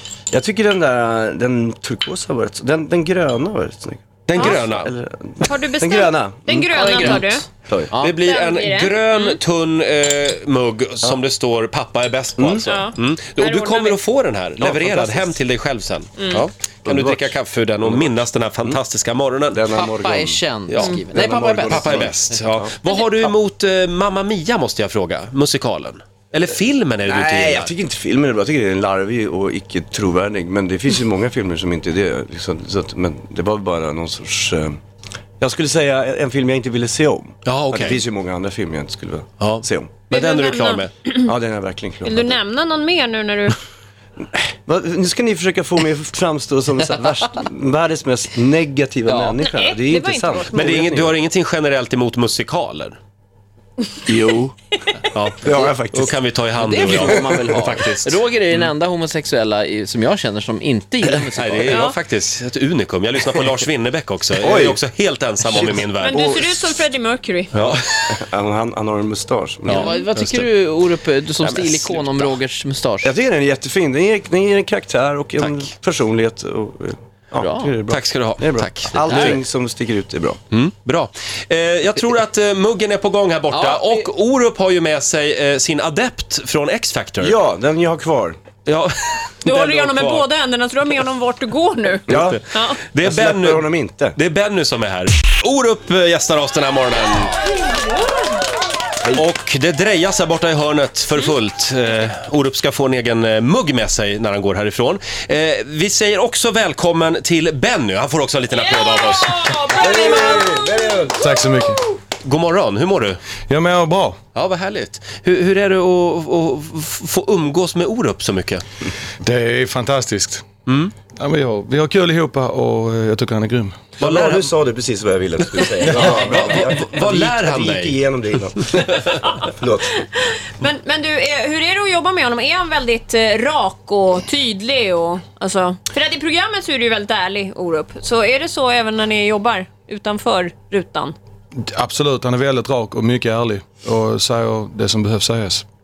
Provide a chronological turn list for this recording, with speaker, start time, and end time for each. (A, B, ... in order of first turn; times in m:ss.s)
0:00.3-0:07.9 A
0:04.3-0:04.9 B
0:04.4-0:04.6 C
0:05.4-0:07.5 C
0:06.7-0:08.2 D
0:08.0-0:19.7 B
0:08.2-0:09.4 C
0:12.4-0:12.7 A
0:12.6-0:14.0 C
0:14.6-0:15.4 A
0:16.2-0:16.4 C
0:16.8-0:18.8 A
0:19.5-0:22.7 A
0:19.7-0:22.2 D
0:20.7-0:21.0 B
0:21.6-0:27.7 B
0:27.0-0:34.8 A
0:35.4-0:40.0 A
0:37.4-0:38.0 B
0:39.4-0:40.9 B
0:40.1-0:41.3 C
0:41.2-0:42.4 A
0:42.0-0:43.6 C
0:44.3-0:51.1 A
0:49.1-0:49.4 D
0:49.4-0:50.9 C
0:50.5-0:53.0 B
0:54.1-0:54.6 A
0:55.1-0:58.7 B
0:55.4-0:56.2 A
0:56.6-1:01.9 D
0:56.9-0:57.6 A
1:01.4-1:06.2 B
1:01.7-1:02.0 C
1:04.4-1:04.8 A
1:05.5-1:06.9 A
1:06.0-1:07.5 C
1:07.5-1:08.2 B
1:07.6-1:10.0 A
1:09.7-1:10.5 B
1:09.7-1:13.1 D
1:11.4-1:12.4 B
1:13.0-1:20.4 A
1:15.4-1:15.7 B
1:17.4-1:17.8 D
1:17.9-1:19.4 B
1:19.1-1:19.4 D
1:20.5-1:27.4 B
1:23.5-1:24.1 D
1:27.2-1:28.4 A
1:28.6-1:30.3 B
1:29.4-1:32.8 C
1:32.1-1:32.4 A
1:32.1-1:37.4 B
1:33.0-1:34.2 A
1:39.1-1:49.8 B
1:48.5-1:51.1 C
1:49.7-1:51.4 A
1:51.1-1:51.8 E
1:52.2-1:53.2 B
1:53.5-1:54.2 E
1:54.4-1:58.6 B
1:59.2-2:00.4 E
2:00.7-2:00.9 B
2:01.2-2:03.8 E
2:04.0-2:10.0 A
2:04.0-2:04.5 B
2:05.5-2:08.0 B
2:05.8-2:06.1 E
2:10.0-2:21.2 C
2:21.7-2:25.6 E